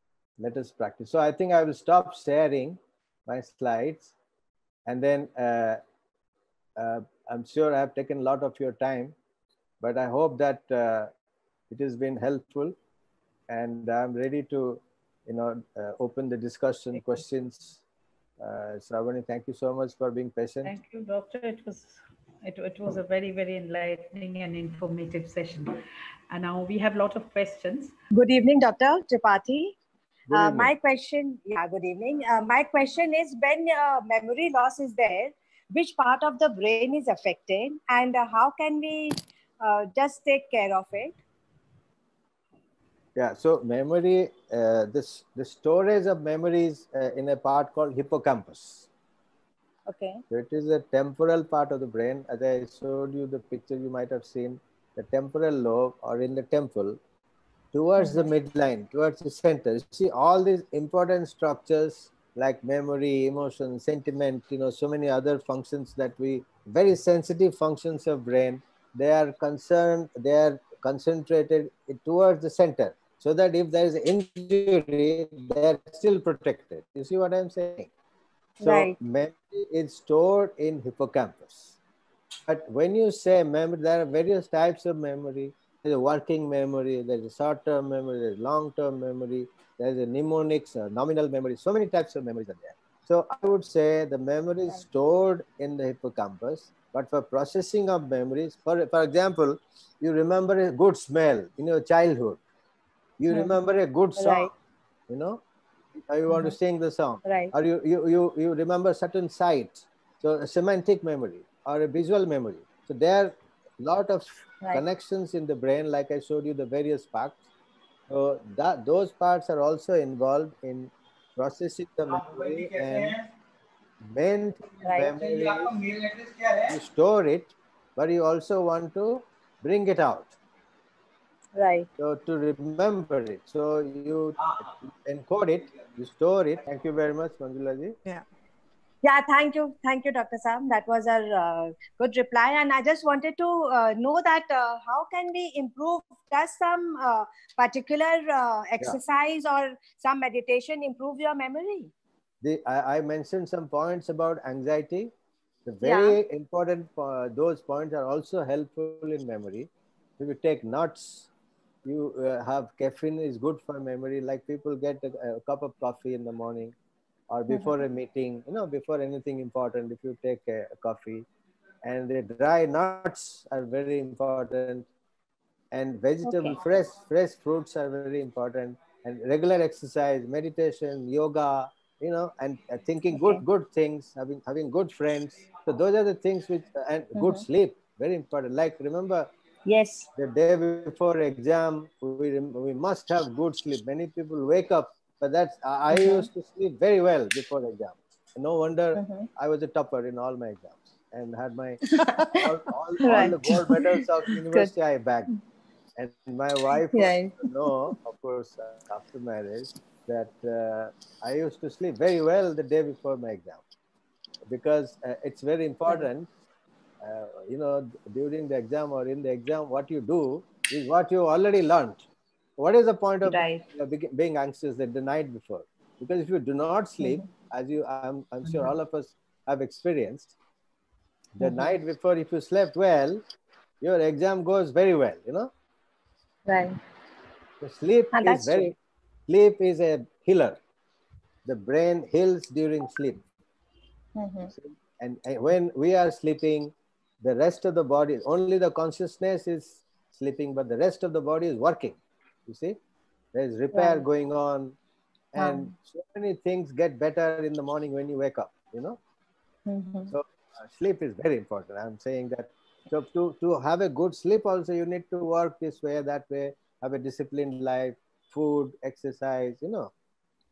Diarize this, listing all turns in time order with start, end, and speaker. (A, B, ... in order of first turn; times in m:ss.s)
0:00.4-0:04.1 A
0:04.8-0:05.8 A
0:06.8-0:09.2 A
0:09.8-0:11.1 A
0:11.7-0:12.8 A
0:13.5-0:17.8 A
0:18.4-0:20.7 A
0:20.6-0:25.8 B
0:26.3-0:27.9 B
0:28.1-0:29.7 C
0:30.3-0:30.7 A
0:30.3-0:41.2 C
0:43.2-0:48.9 A
0:49.9-0:50.2 C
0:50.3-0:57.0 A
0:57.7-1:17.9 A
1:18.6-1:19.0 C
1:18.6-1:21.8 A
1:22.5-1:42.4 A
1:43.2-1:44.5 A
1:43.3-1:43.6 C
1:44.2-1:44.5 C
1:45.1-1:45.4 A
1:46.1-1:57.4 A
1:47.2-1:47.5 C
1:58.1-2:03.2 A
2:04.0-2:05.8 A
2:04.8-2:05.1 C
2:06.6-2:10.4 A
2:11.6-2:11.9 C
2:12.0-2:18.0 A
2:19.0-2:31.9 C
2:32.4-2:35.1 A
2:35.6-2:41.3 A
2:35.8-2:36.2 C
2:41.8-2:46.8 A
2:47.3-2:51.3 A
2:51.8-2:54.9 A
2:55.7-3:09.3 A
2:56.2-2:56.6 C
3:03.1-3:03.4 C
3:07.2-3:07.4 C
3:09.7-3:10.1 C
3:10.1-3:25.4 A
3:15.9-3:16.3 C
3:19.0-3:19.3 C
3:21.9-3:22.5 C
3:23.0-3:24.7 C
3:26.0-3:33.6 A
3:26.9-3:27.9 C
3:34.5-3:36.3 A
3:37.0-3:50.4 A
3:43.2-3:43.6 C
3:51.3-3:53.2 A
3:51.4-3:51.7 C
3:53.8-3:55.5 A
3:56.5-3:56.8 C
3:57.6-3:58.7 A
3:58.1-3:58.7 C
3:59.3-4:00.6 A
4:01.4-4:03.2 A
4:04.2-4:04.5 C
4:04.5-4:12.8 A
4:13.3-4:14.8 A
4:13.7-4:14.0 C
4:15.3-4:19.0 A
4:15.4-4:15.7 C
4:19.7-4:20.1 C
4:20.1-4:29.9 A